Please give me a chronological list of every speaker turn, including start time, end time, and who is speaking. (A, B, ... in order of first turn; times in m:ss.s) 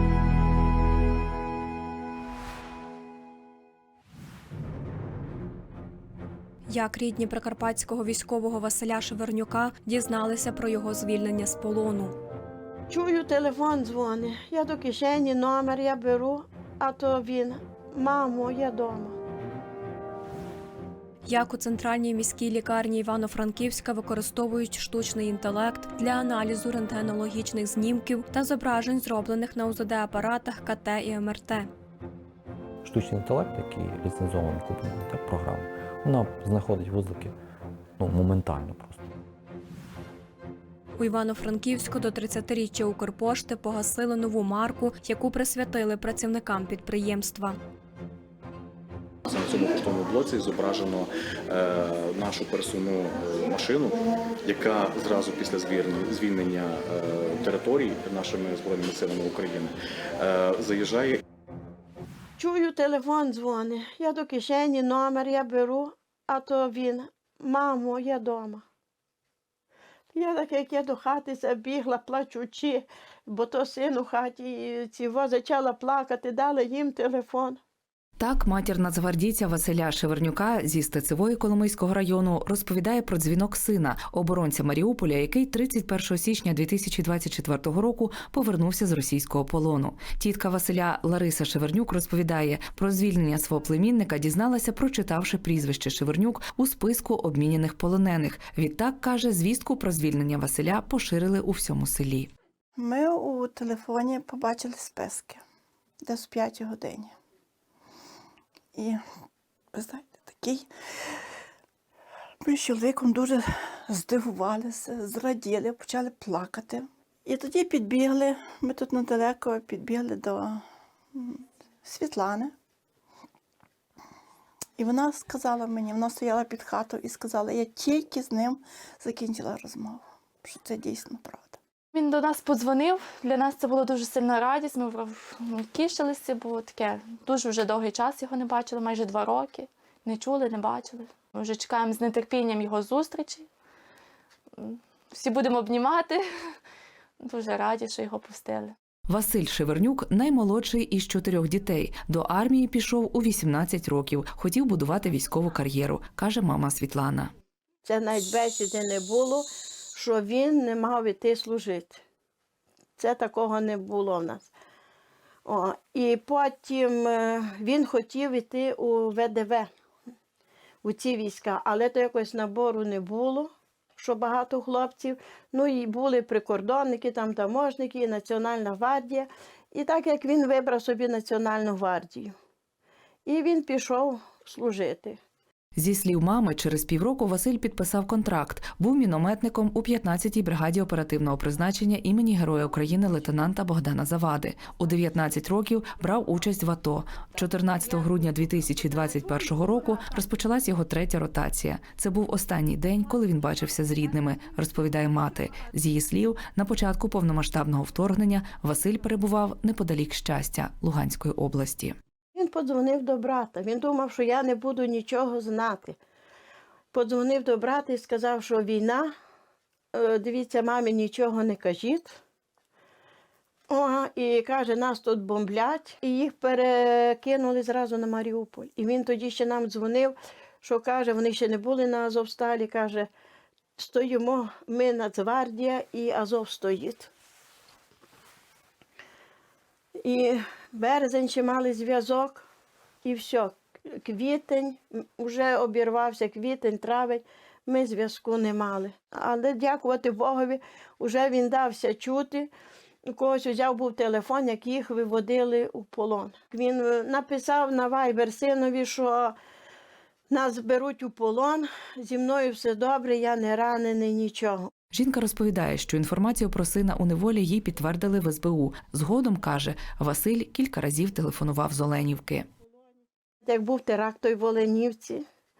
0:06.7-0:12.2 A
0:12.9-0:19.2 B
0:21.2-0:31.7 A
0:32.8-0:37.3 C
0:38.0-0:39.1 C
0:41.0-0:47.6 A
0:49.2-1:01.2 D
1:02.4-1:08.6 B
1:10.1-1:17.6 B
1:18.2-1:42.3 E
1:42.8-1:45.4 F
1:46.0-1:47.1 F
1:48.8-1:49.0 F
1:49.7-1:50.7 F
1:52.4-2:02.5 F
2:04.8-2:11.6 F
2:11.9-2:23.4 G
2:25.2-2:26.1 G
2:27.3-2:28.7 G
2:29.1-2:37.3 E
2:37.8-2:42.0 B
2:43.0-2:44.5 B
2:45.4-2:49.7 B
2:50.8-3:02.3 B
3:03.2-3:05.2 B
3:05.8-3:31.9 E
3:32.3-3:36.0 B
3:36.9-3:39.1 B
3:39.9-3:42.2 B
3:43.7-3:53.1 B
3:53.8-3:57.1 B
4:00.0-4:02.4 B
4:03.0-4:12.5 B
4:13.1-4:19.3 B
4:20.3-4:24.7 B
4:24.9-4:32.5 E
4:33.4-4:35.2 B